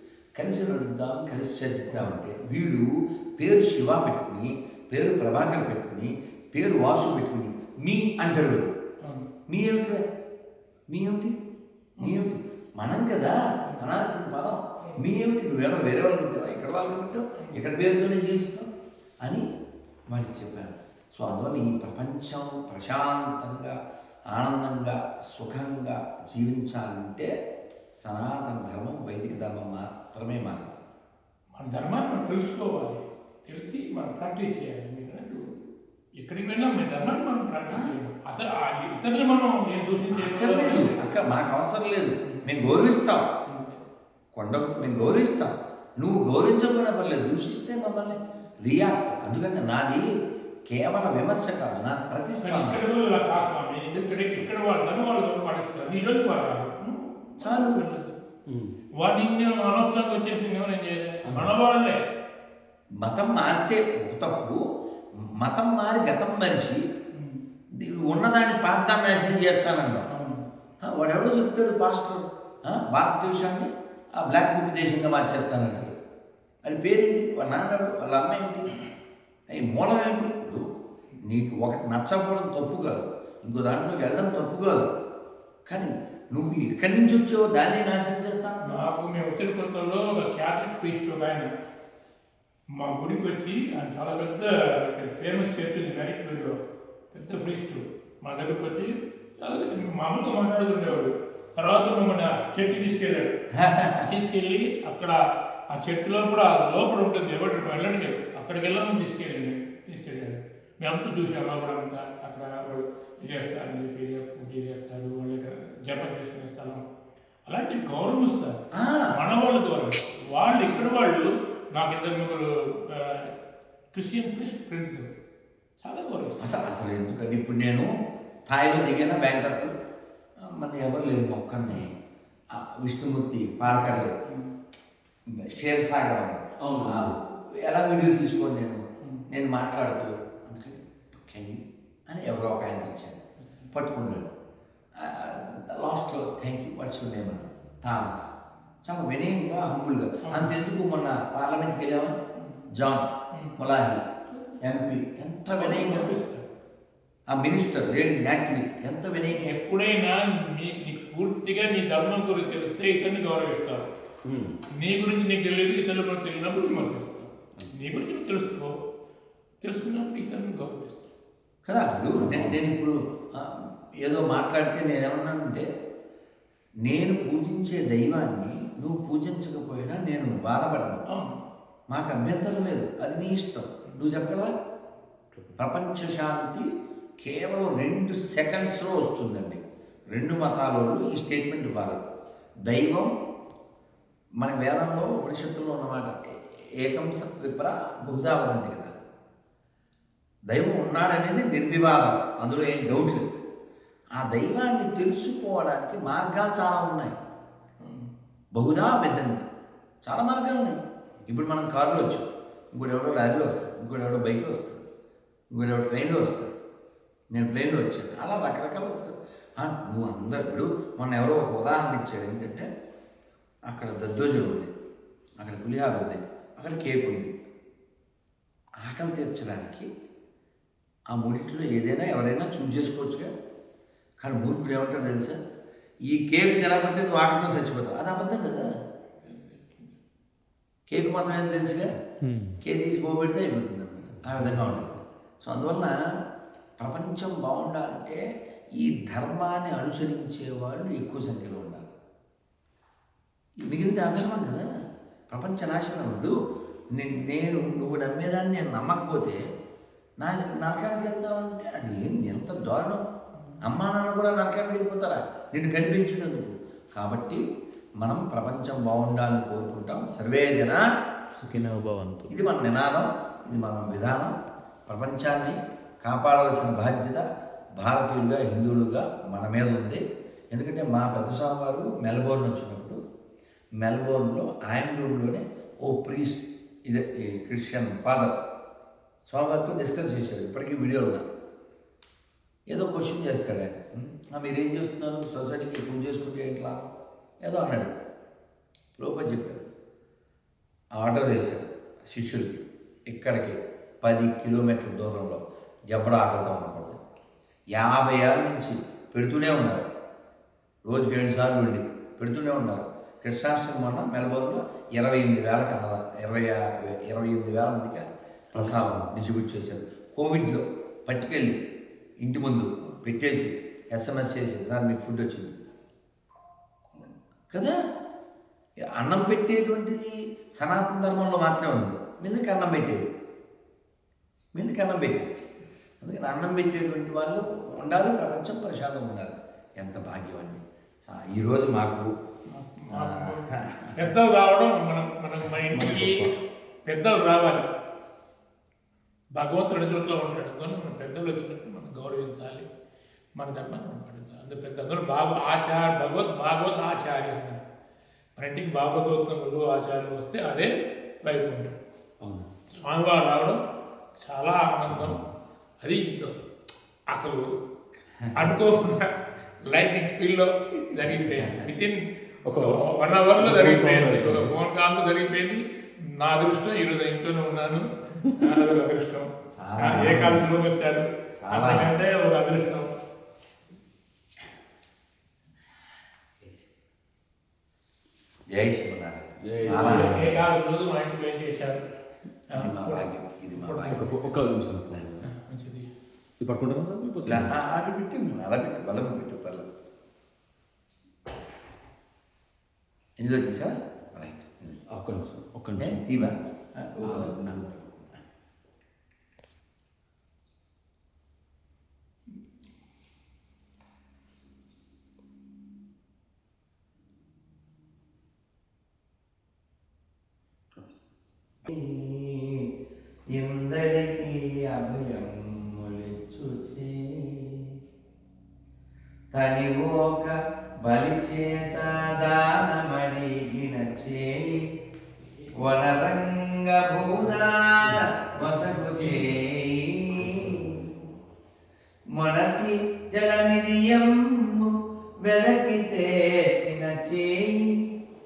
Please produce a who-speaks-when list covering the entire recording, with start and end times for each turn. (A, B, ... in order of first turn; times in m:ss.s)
0:00.4-0:08.7 A
0:09.0-0:09.3 B
0:09.5-0:10.0 A
0:10.9-0:11.3 A
0:12.0-0:12.3 B
0:12.0-0:18.7 A
0:20.1-0:23.8 A
0:24.3-0:27.3 A
0:28.0-0:30.7 A
0:31.6-0:35.6 B
0:36.2-0:41.0 B
0:37.7-0:38.0 A
0:40.1-0:43.3 A
0:43.5-0:43.8 B
0:44.3-0:50.1 A
0:50.7-0:52.8 A
0:52.4-0:58.2 B
0:53.9-0:54.4 A
0:57.4-0:57.8 A
0:58.5-0:58.7 C
0:59.0-1:02.0 B
1:01.2-1:01.5 C
1:03.0-1:04.6 A
1:05.4-1:06.8 A
1:07.1-1:07.4 B
1:07.8-1:10.1 A
1:10.1-1:10.5 B
1:10.8-1:16.0 A
1:16.6-1:18.7 A
1:19.5-1:20.6 A
1:21.2-1:24.9 A
1:25.7-1:28.8 A
1:28.6-1:31.5 B
1:32.8-1:36.6 B
1:37.1-1:43.4 B
1:43.5-1:44.1 A
1:44.0-1:56.8 B
1:57.5-2:03.3 B
1:58.7-1:59.1 A
2:00.4-2:00.8 A
2:03.9-2:05.1 B
2:05.8-2:06.6 B
2:06.4-2:07.9 A
2:08.5-2:09.8 A
2:10.4-2:11.9 A
2:12.5-2:14.2 A
2:13.7-2:14.5 B
2:15.3-2:23.2 A
2:16.6-2:17.2 C
2:19.0-2:19.3 B
2:23.4-2:23.7 B
2:23.7-2:24.3 A
2:24.9-2:28.3 A
2:28.8-2:32.2 A
2:30.2-2:30.6 B
2:32.4-2:32.7 B
2:32.7-2:36.1 A
2:34.3-2:34.6 B
2:35.5-2:36.4 B
2:37.3-2:39.5 A
2:39.3-2:43.8 B
2:44.2-2:44.6 C
2:44.8-2:48.7 B
2:49.6-2:51.1 B
2:51.6-2:55.7 A
2:52.1-2:52.6 C
2:56.8-3:01.0 A
3:01.1-3:01.4 B
3:01.9-3:04.5 A
3:05.6-3:06.6 A
3:07.2-3:09.6 A
3:10.1-3:12.0 A
3:12.7-3:13.1 A
3:14.4-3:19.0 A
3:20.5-3:23.3 A
3:24.2-3:27.1 A
3:27.8-3:28.1 B
3:28.5-3:29.5 A
3:30.0-3:34.8 A
3:35.5-3:36.5 A
3:37.3-3:42.7 A
3:43.7-3:44.7 A
3:45.4-3:47.3 A
3:48.8-3:49.9 A
3:51.1-3:53.3 A
3:54.2-3:55.4 A
3:56.1-3:58.7 A
3:59.1-4:00.0 B
4:00.9-4:01.9 A
4:02.2-4:02.6 C
4:02.6-4:05.9 A
4:06.8-4:08.2 A
4:08.7-4:11.9 A
4:13.6-4:14.6 A
4:15.3-4:16.3 A
4:17.0-4:19.4 A
4:20.2-4:23.0 A
4:23.6-4:27.4 A
4:28.0-4:30.8 A
4:31.4-4:32.2 C
4:32.3-4:34.3 A
4:34.9-4:37.2 A
4:37.8-4:40.0 A
4:40.5-4:43.0 A
4:43.8-4:48.4 A
4:49.3-4:51.2 A
4:52.7-4:56.8 A
4:57.4-4:57.9 A
4:59.0-4:59.7 A
5:01.0-5:07.0 A
5:07.7-5:09.9 A
5:10.9-5:21.6 A
5:18.6-5:19.1 C
5:22.2-5:25.5 A
5:29.0-5:33.0 A
5:34.5-5:35.3 A
5:36.0-5:42.1 A
5:42.5-5:46.3 B
5:42.9-5:44.1 A
5:45.7-5:46.3 C
5:46.8-5:47.7 B
5:49.4-5:52.7 B
5:53.4-5:57.6 B
5:58.4-6:00.7 B
6:01.2-6:01.8 B
6:02.2-6:02.6 C
6:02.7-6:03.6 B
6:04.2-6:05.2 B
6:04.9-6:05.3 C
6:05.8-6:06.3 B
6:07.1-6:07.6 B
6:08.2-6:08.5 A
6:08.3-6:15.6 B
6:11.4-6:11.6 A
6:12.4-6:12.9 C
6:13.4-6:14.5 C
6:16.2-6:19.3 B
6:19.5-6:20.4 A
6:19.8-6:22.9 B
6:21.4-6:21.9 A
6:28.5-6:30.4 A
6:29.4-6:30.4 C
6:29.6-6:31.8 B
6:32.5-6:34.2 B
6:32.5-6:34.1 A
6:33.9-6:35.2 C
6:35.2-6:35.9 B
6:36.4-6:37.6 C
6:37.2-6:39.6 A
6:43.2-6:44.8 A
6:44.9-6:46.0 C
6:45.8-6:48.1 A
6:47.0-6:47.6 C
7:01.6-7:02.6 A
7:03.3-7:07.6 A
7:09.3-7:14.7 A
7:15.2-7:15.7 B
7:15.6-7:21.1 A
7:18.9-7:19.3 B
7:22.1-7:24.7 A
7:25.2-7:27.8 A